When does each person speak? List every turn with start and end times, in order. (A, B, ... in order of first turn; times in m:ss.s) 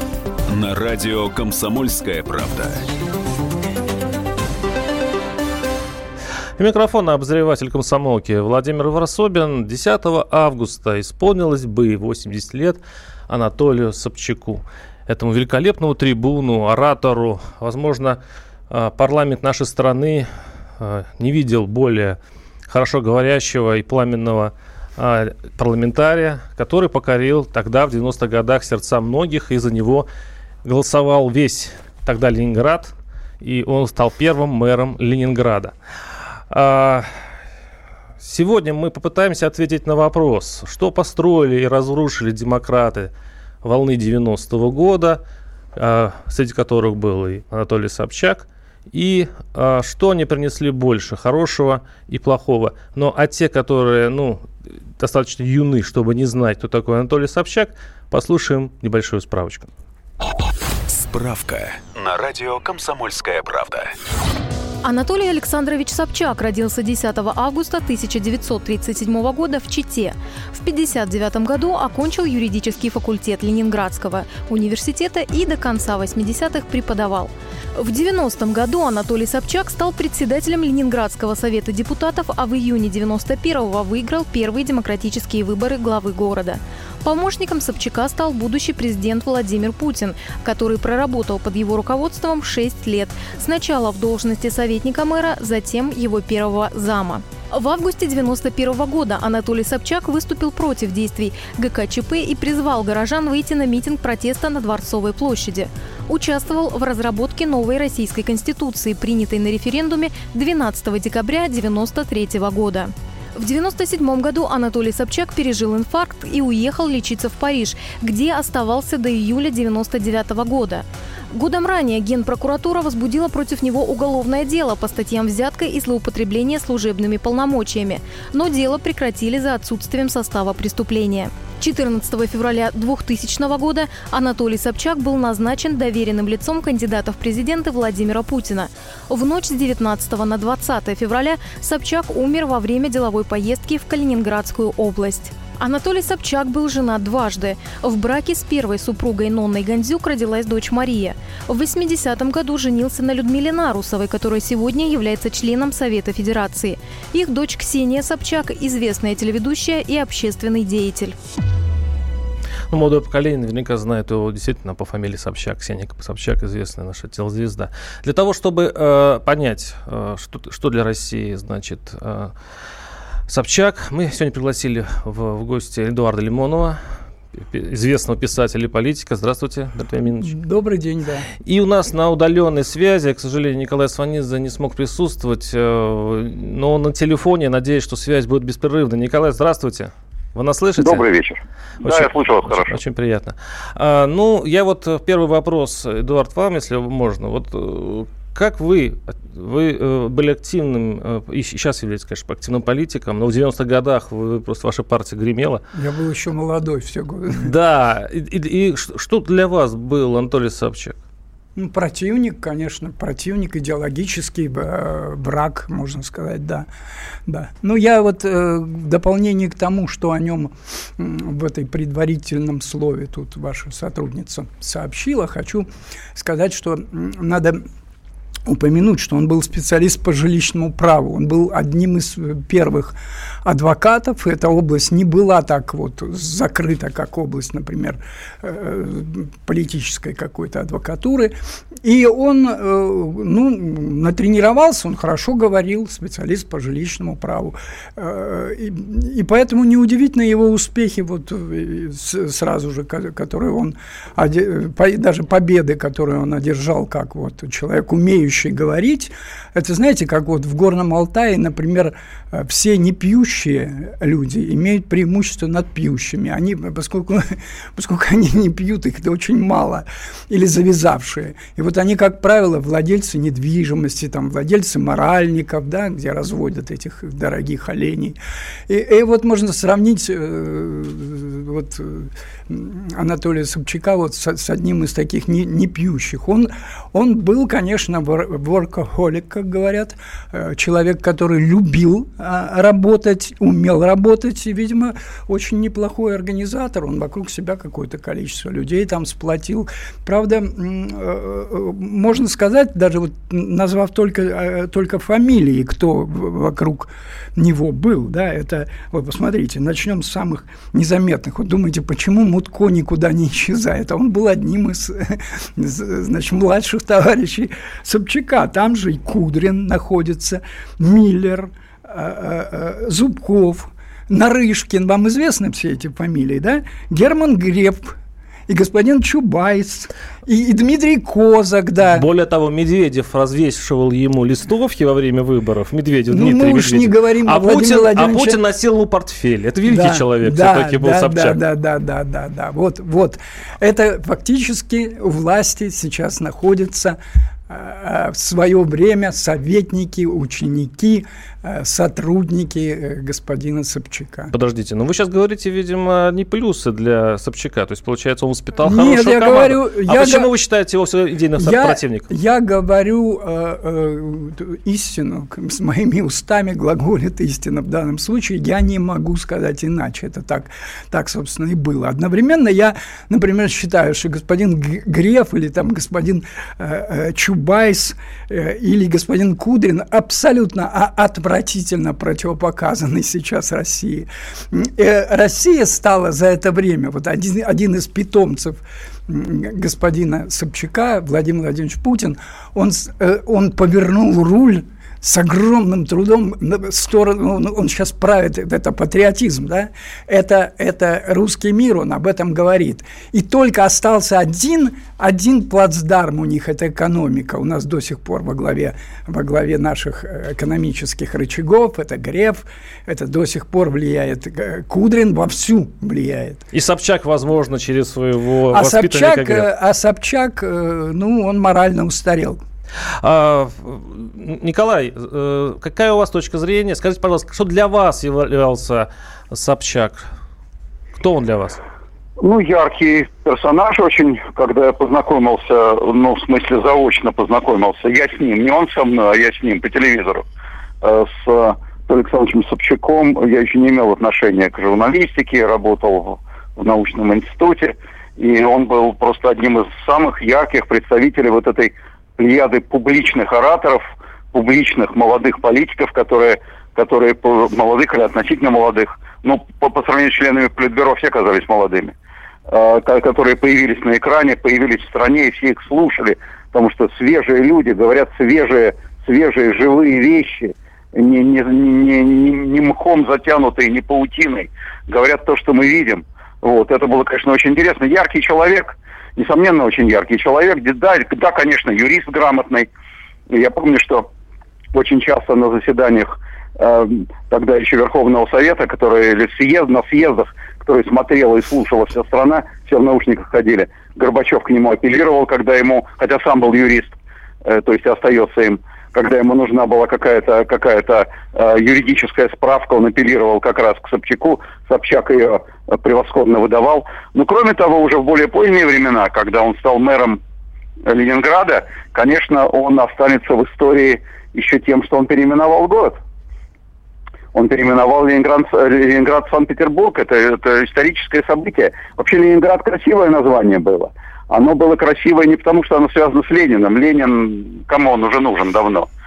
0:00.5-0:02.8 A
0:06.6-0:20.3 B
0:20.8-0:30.1 B
0:30.6-0:35.7 B
0:36.5-0:37.1 B
0:38.2-0:43.1 B
0:43.6-0:45.2 B
0:45.8-0:54.4 B
0:55.0-0:59.7 B
1:00.9-1:03.9 A
1:04.8-2:41.2 C
2:42.7-2:52.3 B
2:53.3-2:56.8 B
2:57.5-3:00.3 B
3:00.2-3:01.3 D
3:01.4-3:11.0 B
3:10.8-3:12.8 E
3:11.8-3:25.6 B
3:25.8-3:27.5 D
3:27.3-3:31.0 B
3:31.6-3:36.7 D
3:37.2-3:47.7 D
3:48.4-4:38.2 D
4:38.7-5:27.9 D
5:28.5-5:32.0 D
5:31.8-5:41.4 B
5:36.1-5:38.4 D
5:39.6-5:54.3 D
5:54.3-6:02.1 B
5:58.6-6:00.3 D
6:01.4-6:56.4 D
6:56.5-6:59.5 B
6:58.5-7:02.4 D
7:03.0-7:10.0 B
7:11.0-7:11.6 B
7:12.2-7:20.2 E
7:20.8-7:41.9 E
7:42.5-8:02.7 E
8:03.3-8:04.1 E
8:04.7-8:30.2 E
8:30.9-8:36.0 E
8:37.3-8:48.9 E